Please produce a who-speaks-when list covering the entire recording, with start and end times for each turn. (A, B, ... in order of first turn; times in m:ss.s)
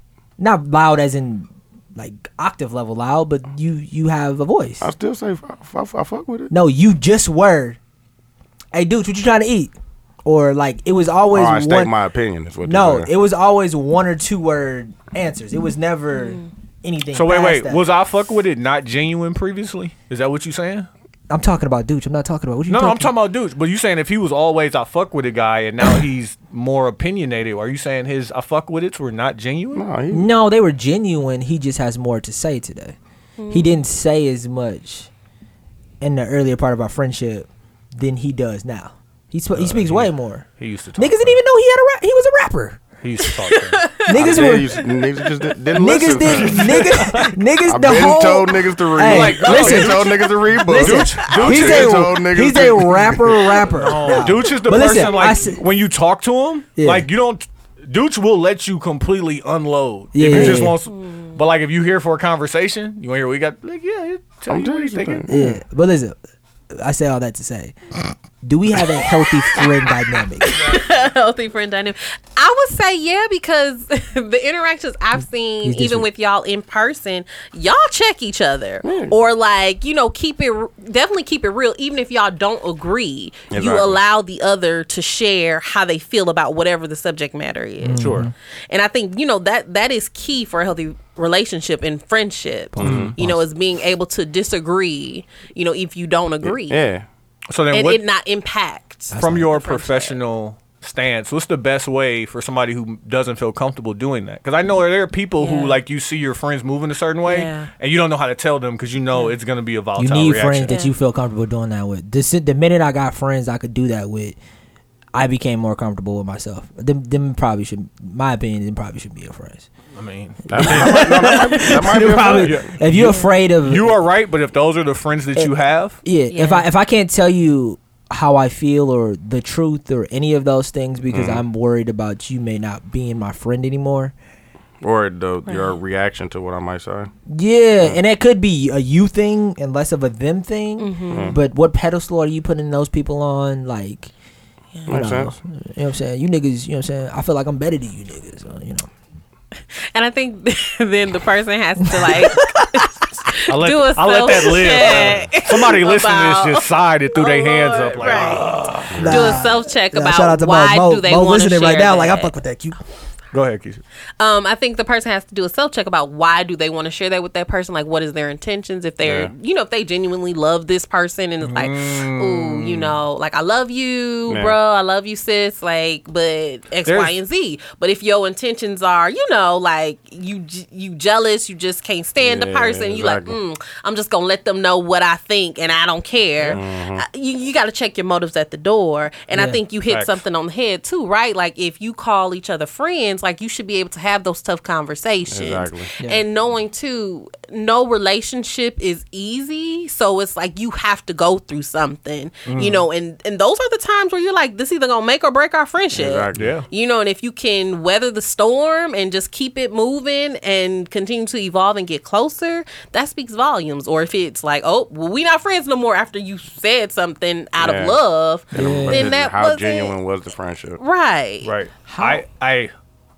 0:00.4-0:04.9 A
0:04.8-0:06.5 B
0:06.5-0:07.8 A
0:08.7-0:09.7 A
0:10.2-0:11.9 A
0:11.3-0:13.1 B
0:12.6-0:17.8 A
0:16.1-0:16.5 C
0:17.1-0:20.9 D
0:21.3-0:23.1 A
0:22.7-0:29.8 D
0:29.7-0:30.3 B
0:30.1-0:33.0 A
0:33.4-0:33.8 C
0:33.5-0:35.1 A
0:36.0-0:42.8 A
0:39.6-0:41.4 D
0:43.0-0:44.5 D
0:43.4-0:44.2 C
0:44.0-0:44.8 A
0:44.1-0:46.8 B
0:45.8-0:55.6 A
0:46.3-0:47.3 D
0:47.6-0:53.5 B
0:49.0-0:50.2 D
0:50.7-0:52.1 D
0:53.7-1:05.4 D
0:54.0-0:55.4 C
0:56.8-0:57.1 A
1:00.1-1:00.8 A
1:00.2-1:00.7 B
1:00.9-1:01.4 C
1:04.5-1:05.6 B
1:05.3-1:06.2 A
1:06.7-1:07.8 A
1:08.4-1:10.8 A
1:09.4-1:09.8 C
1:10.4-1:36.8 C
1:15.6-1:16.1 A
1:18.8-1:19.2 B
1:23.5-1:24.0 B
1:27.8-1:28.3 A
1:28.0-1:28.3 D
1:32.8-1:33.4 A
1:32.8-1:33.2 B
1:32.8-1:33.2 D
1:36.4-1:37.1 B
1:37.5-1:38.0 D
1:37.7-1:40.2 C
1:39.1-1:39.5 A
1:39.2-1:50.8 D
1:45.4-1:45.8 C
1:47.2-1:47.7 C
1:50.0-1:54.4 A
1:50.7-1:50.9 C
1:55.1-1:59.7 A
1:59.9-2:01.3 D
2:00.5-2:02.6 B
2:00.6-2:04.0 A
2:02.4-2:06.0 D
2:03.0-2:03.3 C
2:06.0-2:14.1 A
2:06.3-2:06.7 C
2:11.1-2:11.4 B
2:14.8-2:17.1 B
2:15.5-2:15.8 C
2:17.3-2:24.1 A
2:20.8-2:21.4 C
2:21.1-2:21.4 B
2:24.9-2:25.4 B
2:24.9-2:28.9 A
2:29.8-2:42.3 C
2:31.8-2:32.6 A
2:33.5-2:39.2 D
2:39.0-2:42.8 A
2:43.3-2:43.8 D
2:44.2-3:40.0 C
2:49.0-2:49.3 B
2:51.4-2:53.0 D
2:54.3-2:54.6 B
2:56.8-2:57.2 D
3:02.2-3:03.4 B
3:06.5-3:07.0 B
3:09.3-3:09.6 A
3:09.9-3:10.2 D
3:15.3-3:15.9 B
3:22.5-3:22.8 D
3:25.9-3:26.5 B
3:26.4-3:26.7 D
3:37.6-3:38.0 B
3:38.5-3:40.8 B
3:38.5-3:39.1 A
3:40.8-3:41.5 C
3:41.4-3:42.7 D
3:41.9-3:42.2 A